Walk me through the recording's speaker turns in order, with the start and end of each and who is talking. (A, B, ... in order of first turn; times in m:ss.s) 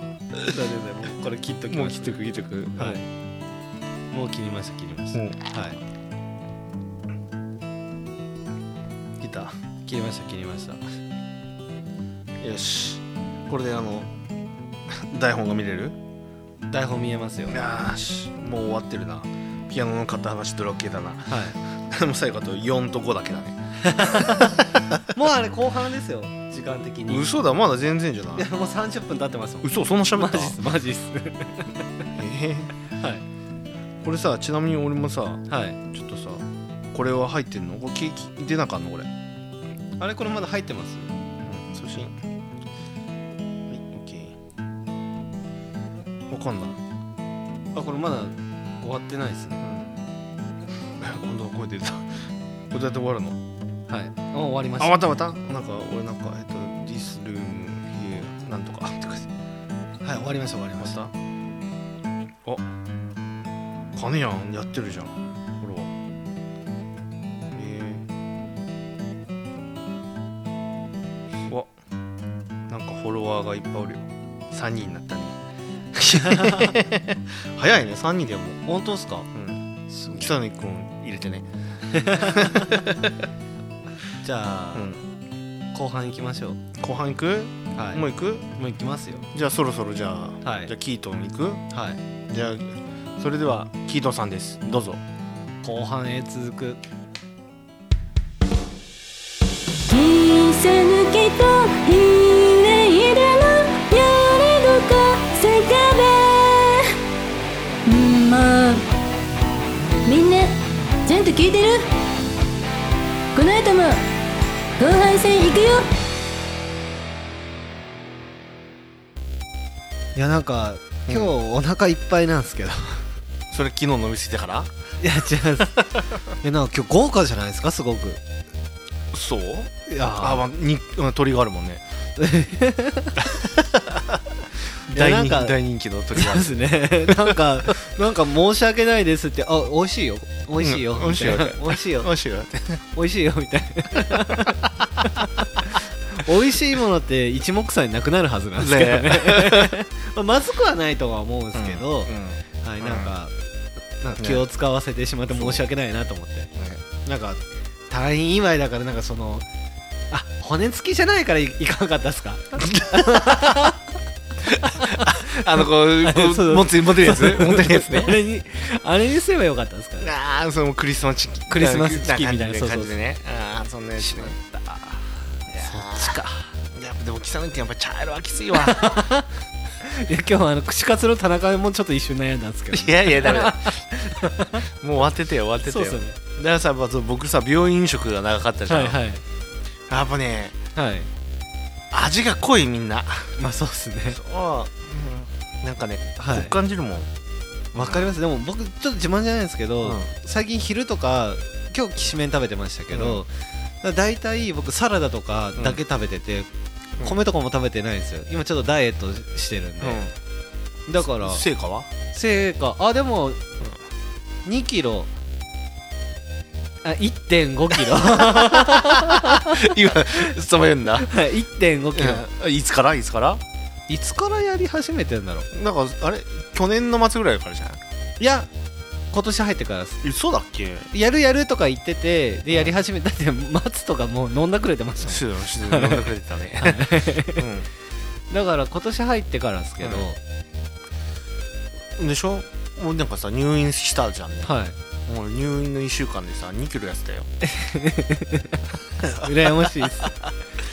0:00.4-0:02.1 A
0:01.7-0:03.0 B
0:02.8-0:03.0 A
0:04.1-0:05.8 A
0:05.1-0:05.4 B
0:09.2-0:09.6 B
0:09.8-0:10.8 A
0:12.4-0:14.1 B
0:14.9-0:16.0 B
0:16.7-0:17.6 A
0:17.5-0:25.0 B
0:21.3-0:21.6 A
0:23.8-0:24.6 A
0:25.1-0:27.4 A
0:27.1-0:28.4 B
0:28.3-0:32.0 A
0:29.6-0:30.6 B
0:32.1-0:32.7 B
0:32.9-0:33.2 A
0:34.0-0:39.1 B
0:35.5-0:35.8 A
0:40.0-0:41.1 A
0:41.4-0:42.2 B
0:43.7-0:44.4 B
0:46.3-0:46.8 B
0:47.7-0:49.6 A
0:49.6-0:49.9 B
0:51.0-0:53.4 B
0:53.9-0:55.0 A
0:54.8-0:59.3 B
1:00.0-1:01.0 A
1:00.8-1:01.1 B
1:03.9-1:05.9 B
1:07.5-1:08.1 B
1:12.7-1:15.4 B
1:15.9-1:18.6 B
1:16.1-1:16.7 A
1:18.6-1:19.3 A
1:19.3-1:19.6 B
1:19.9-1:20.3 A
1:20.1-1:21.5 B
1:21.9-1:22.8 A
1:22.0-1:23.2 B
1:24.2-1:24.9 A
1:24.7-1:25.0 B
1:25.7-1:26.6 A
1:26.8-1:28.5 B
1:27.7-1:29.2 A
1:29.3-1:31.6 B
1:30.4-1:30.7 A
1:31.7-1:32.0 A
1:32.3-1:35.0 B
1:35.6-1:36.8 A
1:39.8-1:46.9 C
1:47.8-1:48.8 C
1:50.0-1:51.9 C
1:53.3-1:54.0 C
1:54.8-1:55.9 C
2:00.1-2:03.0 A
2:01.1-2:01.3 B
2:03.5-2:04.7 B
2:05.0-2:05.9 A
2:06.4-2:08.2 A
2:09.1-2:11.8 B
2:09.9-2:10.4 A
2:12.2-2:13.2 A
2:13.2-2:14.2 B
2:14.8-2:17.4 B
2:14.9-2:15.6 A
2:16.1-2:22.1 A
2:20.6-2:22.8 B
2:22.9-2:33.3 A
2:24.1-2:25.2 B
2:28.6-2:29.8 B
2:31.5-2:33.1 B
2:34.0-2:39.4 A
2:34.2-2:34.4 B
2:35.3-2:35.6 B
2:40.1-2:43.8 A
2:42.6-2:43.5 B
2:44.4-2:48.2 B
2:44.6-2:50.1 A
2:50.0-2:54.4 B
2:51.5-2:53.0 A
2:54.0-2:56.5 A
2:55.5-2:56.2 B
2:56.7-2:59.1 B
2:58.5-2:59.3 A
2:59.8-3:04.6 A
3:02.7-3:03.8 B
3:04.8-3:09.0 B
3:05.6-3:06.2 A
3:08.7-3:09.2 A
3:09.9-3:10.6 B
3:10.8-3:11.1 A
3:11.9-3:13.4 B
3:13.4-3:14.2 A
3:14.1-3:17.1 B
3:16.2-3:16.6 A
3:17.7-3:18.1 B
3:17.7-3:26.5 A
3:19.8-3:20.1 B
3:22.9-3:23.2 B
3:25.6-3:25.8 B
3:27.0-3:30.0 A
3:29.8-3:30.1 B
3:30.9-3:31.4 A
3:31.0-3:31.9 B
3:32.1-3:33.4 A
3:34.4-3:35.1 A
3:36.8-3:40.3 A
3:38.0-3:41.1 B
3:41.0-3:42.2 A
3:41.9-3:43.4 B
3:43.9-3:45.5 A
3:45.5-3:47.8 B
3:48.2-3:48.5 A
3:49.1-3:50.0 A
3:50.0-3:50.9 B
3:50.9-3:56.1 A
3:55.0-3:57.7 B
3:56.6-3:57.4 A
3:58.3-4:00.2 A
3:59.8-4:00.1 B
4:02.0-4:04.5 B
4:04.4-4:04.8 A
4:05.0-4:07.3 B
4:07.4-4:08.6 A
4:09.0-4:10.1 B
4:09.2-4:10.2 A